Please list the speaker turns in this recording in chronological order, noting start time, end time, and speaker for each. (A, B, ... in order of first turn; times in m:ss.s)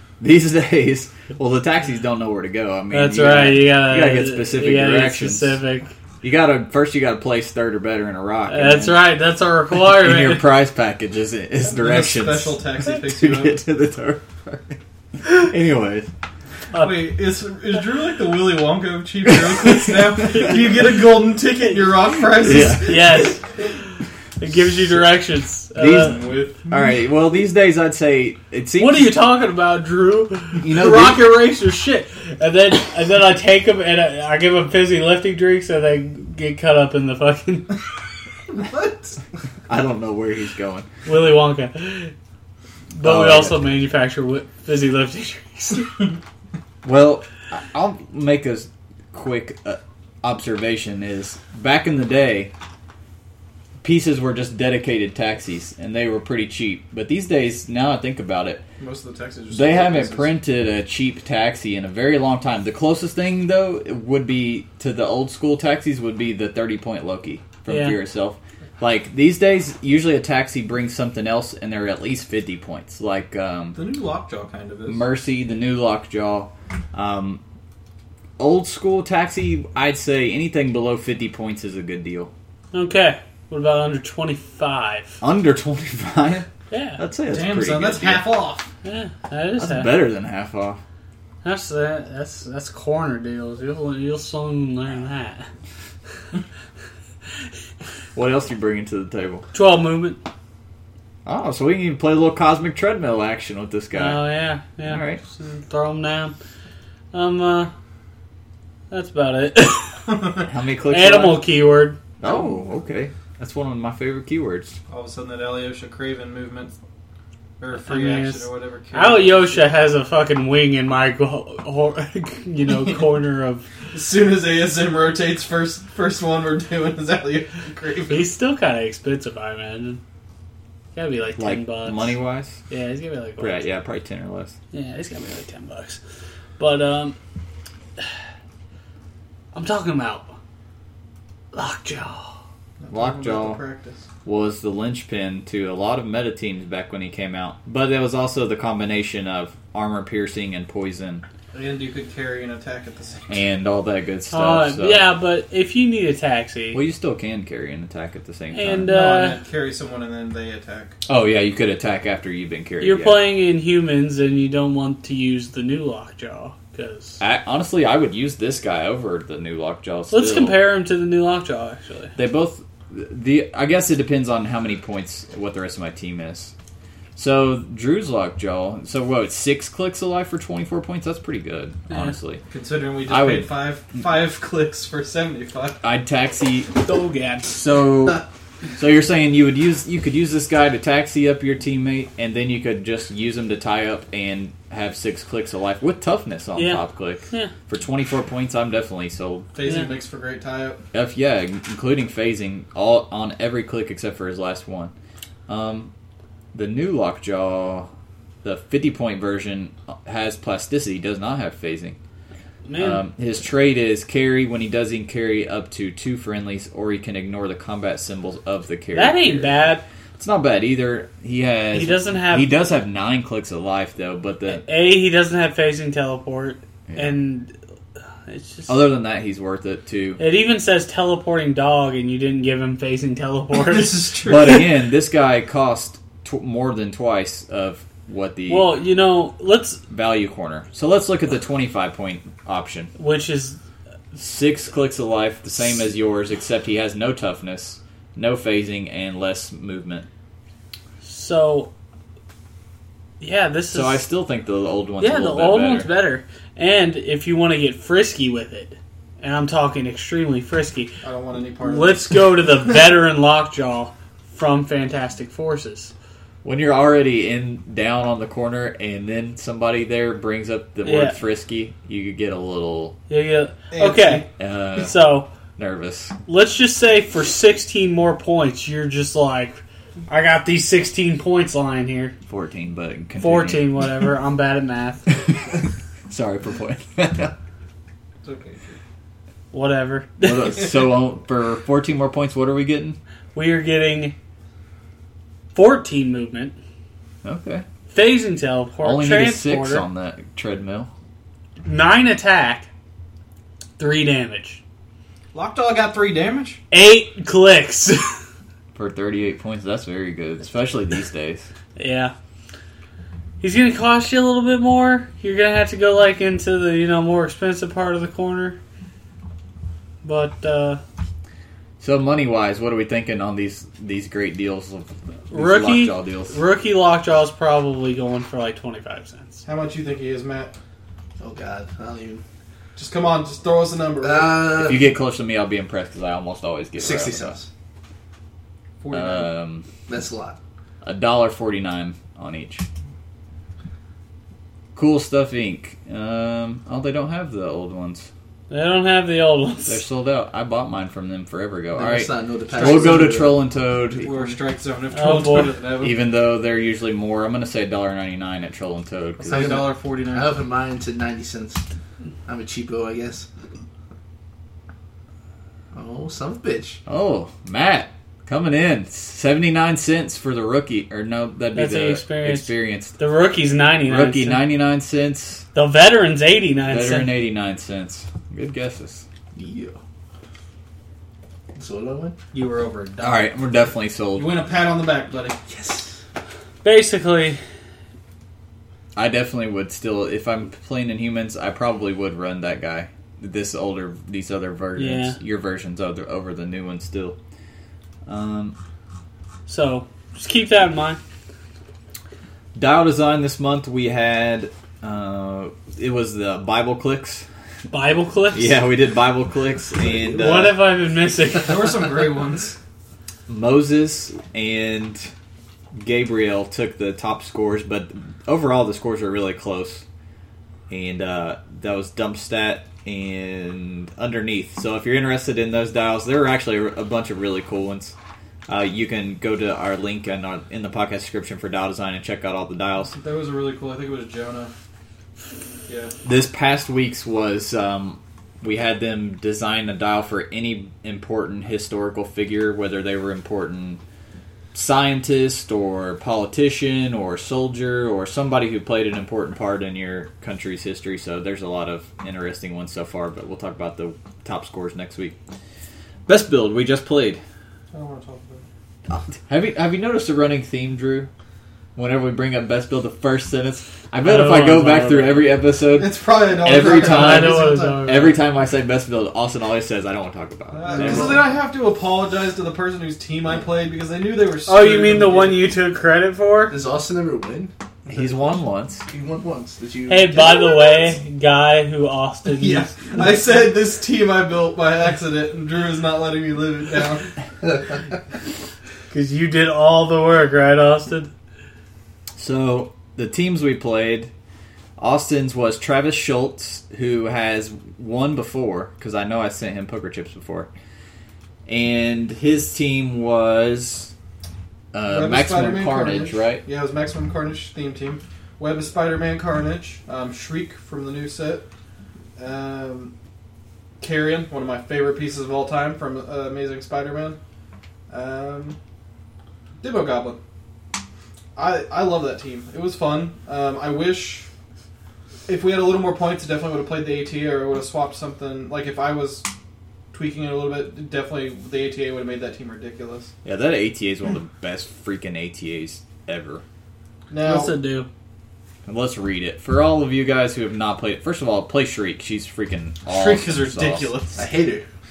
0:00.2-0:05.6 A
0:02.9-0:05.9 B
0:06.2-0:09.0 A
0:08.5-0:10.5 B
0:09.9-0:16.1 A
0:11.6-0:13.6 C
0:16.7-0:17.0 B
0:16.7-0:23.6 C
0:22.0-0:23.8 B
0:22.4-0:23.0 A
0:24.4-0:26.2 B
0:25.8-0:29.1 A
0:25.9-0:26.9 C
0:28.8-0:37.8 B
0:30.6-0:31.2 A
0:38.5-0:39.2 C
0:39.7-0:40.9 A
0:41.0-0:42.1 B
0:42.9-0:46.1 B
0:43.0-0:43.8 A
0:46.8-0:52.5 A
0:53.8-0:58.6 A
0:58.8-1:00.3 C
0:59.5-1:13.8 A
1:07.7-1:08.0 B
1:13.7-1:15.0 C
1:14.9-1:17.4 A
1:18.4-1:22.3 A
1:22.7-1:25.2 B
1:25.2-1:28.3 A
1:26.7-1:27.0 B
1:27.3-1:28.7 C
1:28.8-1:29.9 B
1:29.6-1:30.8 A
1:31.4-1:35.5 B
1:38.1-1:39.4 A
1:39.5-1:40.2 B
1:41.2-1:44.2 A
1:43.9-1:46.3 B
1:44.9-1:45.2 A
1:47.1-1:47.7 B
1:48.9-1:50.3 B
1:50.1-1:50.4 C
1:50.4-1:51.4 A
1:50.9-1:52.0 B
1:52.2-1:54.8 A
1:54.9-1:56.7 C
1:57.6-1:59.6 C
1:57.7-2:03.6 B
2:03.9-2:08.3 C
2:08.1-2:10.0 B
2:10.9-2:13.6 B
2:11.4-2:12.6 A
2:13.4-2:14.6 A
2:14.7-2:16.0 B
2:16.6-2:17.2 B
2:19.5-2:20.3 B
2:21.5-2:22.3 B
2:22.8-2:24.0 C
2:22.9-2:23.6 A
2:24.2-2:31.2 A
2:31.5-2:33.4 C
2:33.3-2:35.0 A
2:34.3-2:36.8 B
2:36.7-2:38.9 A
2:38.5-2:39.4 B
2:38.9-2:41.0 C
2:41.0-2:43.2 A
2:42.8-2:47.2 B
2:47.2-2:50.6 A
2:50.1-2:52.1 B
2:52.2-2:56.5 A
2:57.2-3:02.4 A
3:01.9-3:02.2 B
3:02.5-3:05.8 C
3:03.1-3:03.5 A
3:05.8-3:06.8 A
3:06.8-3:07.5 B
3:07.5-3:08.2 A
3:08.8-3:19.5 A
3:16.5-3:17.5 B
3:19.5-3:20.8 C
3:19.6-3:19.9 B
3:20.9-3:24.9 A
3:25.5-3:25.9 A
3:26.5-3:27.9 A
3:28.4-3:32.0 A
3:32.6-3:33.0 B
3:32.8-3:39.6 A
3:38.9-3:39.8 B
3:40.2-3:44.6 A
3:41.7-3:42.5 B
3:44.5-3:47.5 B
3:48.3-3:48.7 B
3:48.7-3:50.2 A
3:50.2-3:54.1 B
3:53.5-3:54.6 C
3:54.2-3:58.7 A
3:58.5-3:59.8 B
3:59.9-4:02.9 A
4:03.0-4:03.6 B
4:04.1-4:10.1 A
4:11.0-4:11.7 B
4:13.2-4:14.0 B
4:13.7-4:15.9 A
4:15.0-4:21.0 B
4:21.0-4:22.4 C
4:21.6-4:25.9 B
4:26.4-4:33.0 A
4:30.8-4:31.2 B
4:33.1-4:35.3 B
4:33.7-4:34.3 C
4:34.4-4:36.2 A
4:36.2-4:42.2 B
4:42.2-4:43.9 A
4:43.2-4:45.0 B
4:46.1-4:47.3 A
4:48.2-4:48.8 C
4:49.5-4:50.3 B
4:50.2-4:53.0 A
4:53.3-4:54.2 B
4:55.5-4:56.6 B
4:57.2-4:57.6 A
4:57.9-4:59.8 B
4:58.8-5:00.9 A
5:01.6-5:02.7 B
5:03.8-5:04.6 B
5:05.3-5:06.6 C
5:06.7-5:08.2 B
5:08.7-5:11.5 A
5:11.8-5:12.1 B
5:13.4-5:18.6 B
5:20.0-5:20.8 B
5:21.8-5:26.3 A
5:25.3-5:29.4 B
5:29.4-5:30.5 C
5:31.2-5:32.2 D
5:32.8-5:34.5 C
5:34.0-5:34.9 D
5:34.6-5:37.3 A
5:36.8-5:37.5 D
5:38.8-5:39.3 C
5:38.9-5:39.6 A
5:39.9-5:40.4 D
5:40.8-5:42.6 A
5:44.7-5:48.1 A
5:48.5-5:49.8 B
5:49.7-5:54.4 A
5:51.7-5:53.4 D
5:52.6-5:53.0 C
5:54.0-5:56.0 C
5:54.9-5:55.5 B
5:55.8-5:59.6 A
5:59.2-6:00.3 C
5:59.3-6:01.6 D
6:02.2-6:03.3 D
6:05.7-6:06.8 D
6:06.8-6:13.0 A
6:11.5-6:14.4 B
6:13.8-6:15.4 A
6:15.5-6:17.1 B
6:16.6-6:19.0 A
6:19.3-6:19.8 D
6:21.5-6:22.2 D
6:22.3-6:23.3 C
6:23.0-6:24.3 A
6:24.2-6:25.4 C
6:25.5-6:26.0 D
6:26.6-6:27.4 B
6:28.9-6:37.2 A
6:34.8-6:35.2 B
6:38.0-6:38.6 A
6:39.5-6:41.0 B
6:42.5-6:47.2 A
6:47.7-6:48.6 B
6:48.3-6:50.6 A
6:50.0-6:51.7 B
6:51.4-6:52.6 C
6:53.3-6:55.1 A
6:55.7-6:59.8 A
7:00.7-7:07.9 A
7:08.5-7:12.9 A
7:12.9-7:14.5 C
7:15.7-7:15.9 C
7:16.0-7:23.8 A
7:24.5-7:35.2 A
7:36.1-7:37.2 A
7:37.7-7:38.4 C
7:38.9-7:41.1 A
7:41.8-7:51.3 A
7:44.0-7:45.4 B
7:45.7-7:48.0 C
7:46.6-7:48.2 B
7:50.5-7:55.4 C
7:50.7-7:51.2 D
7:54.5-7:56.5 B
7:56.5-7:58.3 D
7:57.9-7:58.8 A
7:58.9-8:01.0 D
7:59.9-8:02.8 B
8:02.4-8:07.1 C
8:08.9-8:11.1 B
8:12.2-8:14.1 A
8:14.8-8:20.5 A
8:21.4-8:23.9 A
8:24.7-8:26.4 A
8:24.8-8:31.5 C
8:32.2-8:32.9 C
8:33.8-8:37.2 C
8:37.9-8:38.6 C
8:39.6-8:40.2 C
8:41.4-8:44.3 C
8:45.3-8:49.3 C
8:49.9-8:53.1 C
8:53.2-8:56.4 A
8:57.1-8:57.5 C
8:57.2-8:57.9 B
8:58.6-9:03.9 A
9:02.9-9:04.2 C
9:04.2-9:04.6 D